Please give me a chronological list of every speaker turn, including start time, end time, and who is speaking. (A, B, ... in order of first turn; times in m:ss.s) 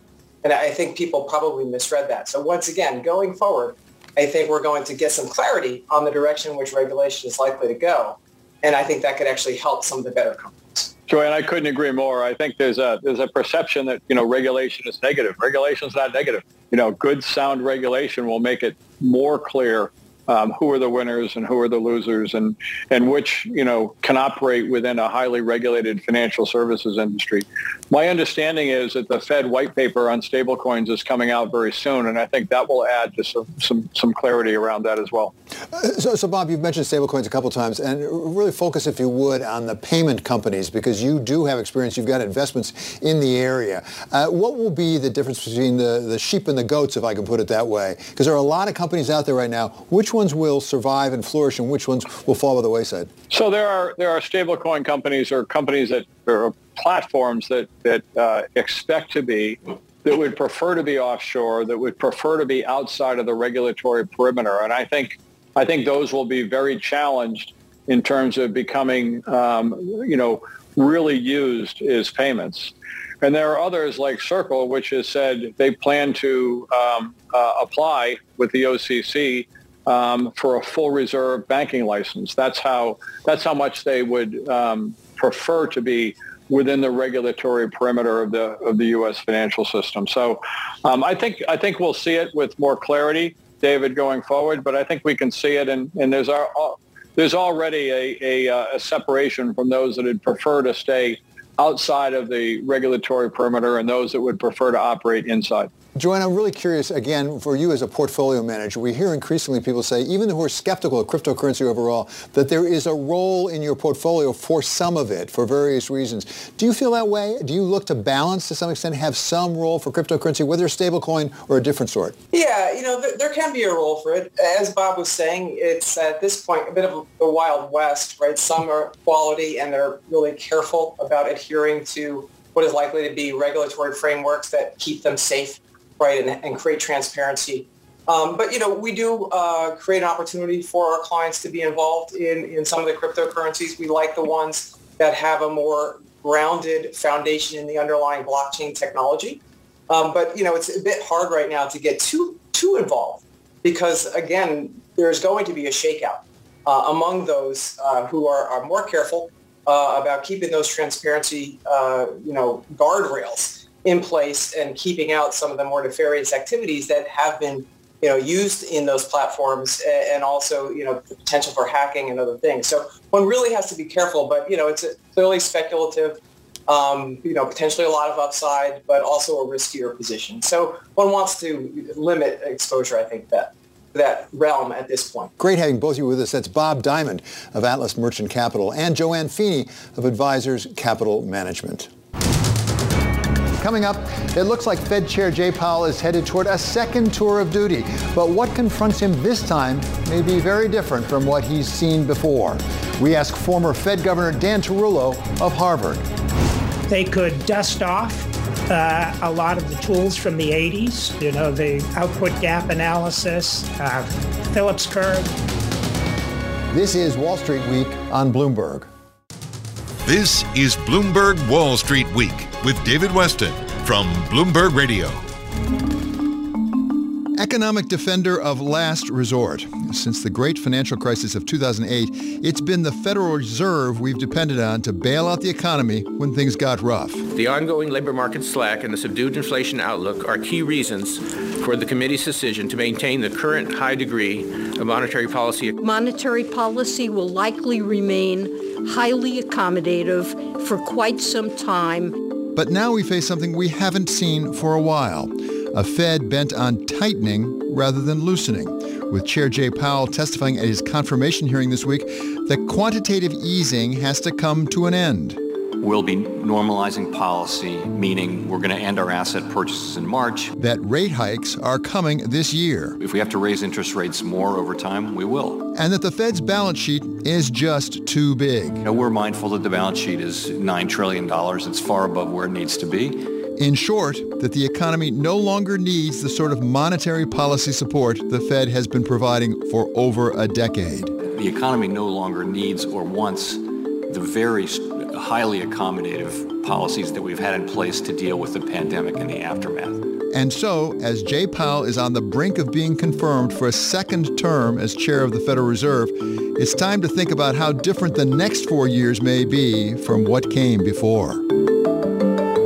0:00.4-0:10.9 A
0:11.1-0:35.3 B
0:35.7-0:53.1 C
0:53.3-1:45.7 B
1:46.0-2:02.2 C
2:02.3-3:05.3 A
3:05.4-3:11.9 C
3:13.6-3:26.0 C
3:26.9-3:35.3 D
3:36.7-3:38.9 C
3:40.1-3:45.2 E
3:47.4-3:57.3 C
3:57.3-4:05.8 F
4:05.8-4:12.1 G
4:12.6-4:25.4 C
4:25.8-4:30.5 H
4:30.6-4:33.0 C
4:33.0-4:35.7 H
4:35.7-4:38.8 C
4:38.8-4:43.3 H
4:43.6-4:51.2 C
4:51.2-5:00.1 H
5:00.3-5:11.5 C